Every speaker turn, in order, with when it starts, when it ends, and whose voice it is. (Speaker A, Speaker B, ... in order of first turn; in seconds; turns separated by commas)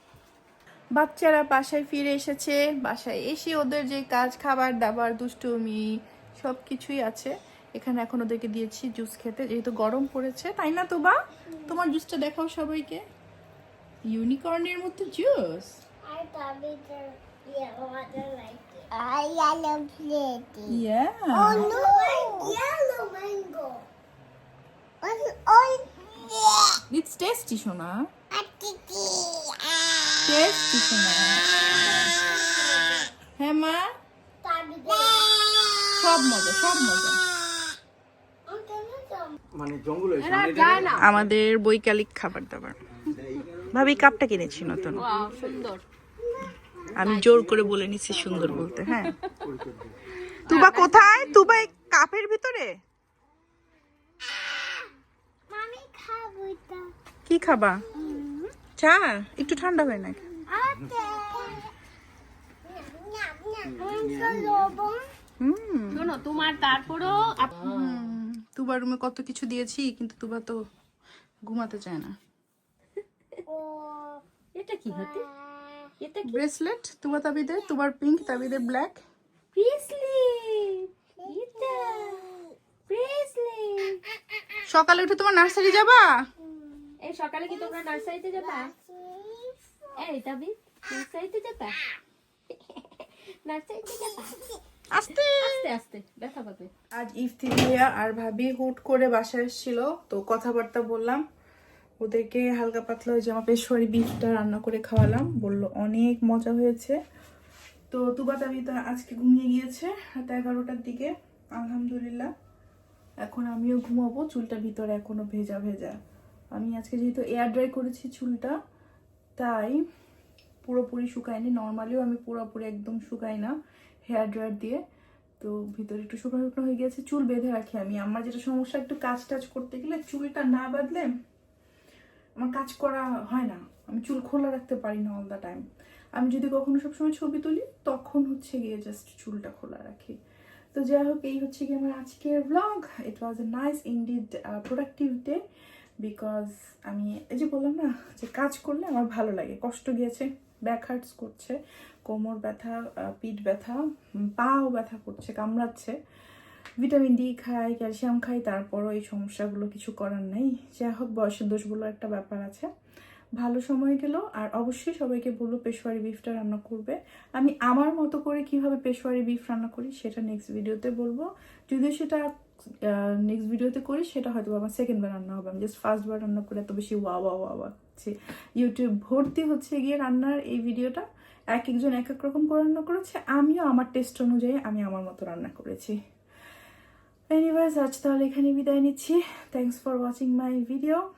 Speaker A: 1.0-11.2, Speaker A: 11.7-13.0, Speaker A: 14.1-15.8, Speaker B: 16.0-20.8, Speaker A: 20.7-21.7, Speaker B: 21.3-23.9, Speaker B: 25.0-26.8, Speaker A: 26.9-28.1, Speaker B: 28.3-29.6, Speaker A: 30.2-31.5, Speaker B: 32.1-33.1, Speaker A: 33.4-33.9, Speaker B: 34.4-35.4, Speaker A: 36.0-37.2, Speaker B: 38.5-39.4, Speaker C: 40.2-41.1, Speaker A: 40.9-42.8, Speaker A: 43.7-45.1, Speaker C: 45.0-45.8, Speaker A: 47.0-49.2, Speaker C: 47.1-47.5, Speaker C: 48.9-49.4, Speaker C: 50.5-51.7, Speaker A: 50.5-52.8, Speaker B: 55.5-56.9, Speaker A: 57.3-57.9, Speaker B: 57.9-58.3, Speaker C: 58.0-58.5, Speaker A: 58.8-60.2, Speaker B: 60.5-61.7, Speaker B: 62.7-65.1, Speaker A: 65.4-66.1, Speaker C: 65.9-68.0, Speaker A: 67.6-70.6, Speaker A: 71.5-72.2, Speaker B: 73.5-74.2, Speaker C: 74.5-75.3, Speaker B: 74.9-75.9, Speaker C: 76.0-76.4, Speaker A: 76.2-79.0, Speaker C: 79.5-82.3, Speaker B: 81.2-82.5, Speaker C: 82.9-84.0, Speaker A: 84.7-86.2, Speaker C: 87.0-88.7, Speaker B: 87.6-89.6, Speaker C: 90.0-91.8, Speaker C: 92.5-94.5, Speaker A: 94.9-95.7, Speaker C: 95.3-96.7, Speaker A: 96.9-101.2, Speaker A: 102.0-107.0, Speaker A: 107.9-112.3, Speaker A: 113.2-116.0, Speaker A: 116.5-118.6, Speaker A: 119.4-119.8, Speaker A: 120.7-123.5, Speaker A: 124.1-124.8, Speaker A: 125.4-131.1, Speaker A: 132.4-140.2, Speaker A: 140.7-145.4, Speaker A: 146.0-155.9, Speaker A: 156.8-162.7, Speaker A: 163.4-172.3, Speaker A: 172.8-186.0, Speaker A: 187.3-191.0